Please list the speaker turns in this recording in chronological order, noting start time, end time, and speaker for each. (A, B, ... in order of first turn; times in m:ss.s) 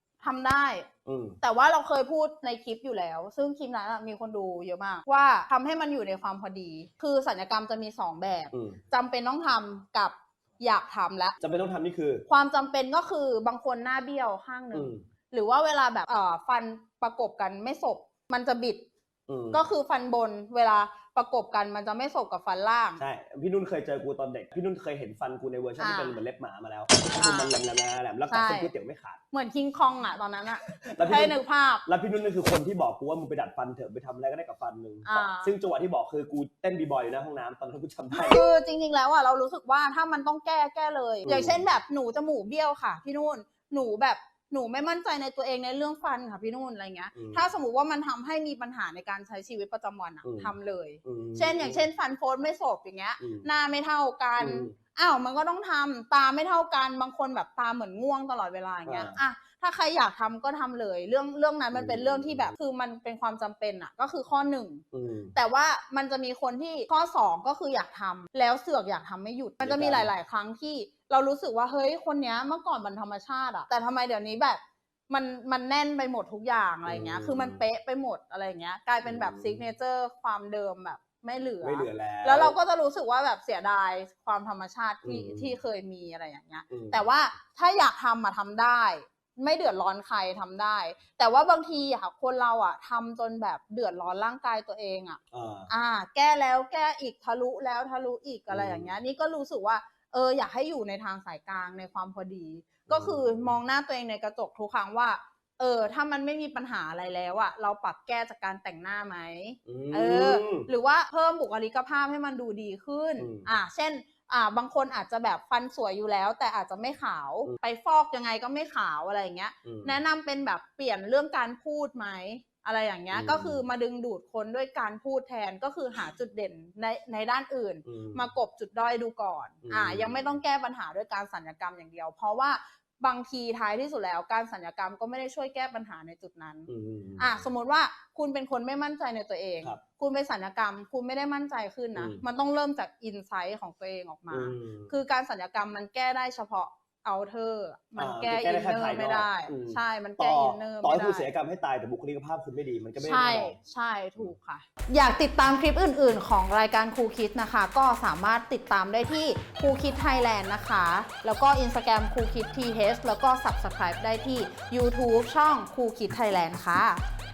0:00.2-0:00.9 A
0:01.0-0:01.4 B
0:01.4-0:11.4 A
0:08.5-0:08.8 B
0:11.4-0:12.2 B
0:12.3-0:18.8 A
0:14.7-0:15.0 B
0:19.3-0:19.6 B
0:19.5-0:23.0 A
0:23.0-0:29.2 B
0:25.8-0:26.2 A
0:27.2-0:27.5 A
0:28.3-0:28.7 A
0:29.3-0:31.8 A
0:30.7-0:38.4 B
0:35.0-0:35.5 A
0:38.1-1:04.8 A
0:41.2-0:41.6 B
0:47.1-0:47.4 B
0:50.2-0:51.8 B
0:53.2-0:53.5 B
0:54.4-0:54.7 B
0:58.8-0:59.2 B
1:01.7-1:02.6 B
1:04.9-1:05.3 B
1:05.3-2:16.7 A
1:09.6-1:10.1 B
1:16.8-1:17.6 B
1:19.0-1:19.6 B
1:21.6-1:22.6 B
1:25.0-1:25.6 B
1:26.7-1:27.0 B
1:35.3-1:35.7 B
1:38.5-1:38.9 B
1:42.9-1:43.6 B
1:49.6-1:50.7 B
1:53.2-1:53.5 B
1:59.6-2:00.0 B
2:03.1-2:03.6 B
2:07.8-2:08.3 B
2:09.6-2:10.4 B
2:16.7-2:17.5 B
2:17.2-2:31.3 A
2:21.9-2:22.2 B
2:24.3-2:24.9 B
2:28.0-2:33.6 B
2:33.0-2:47.0 A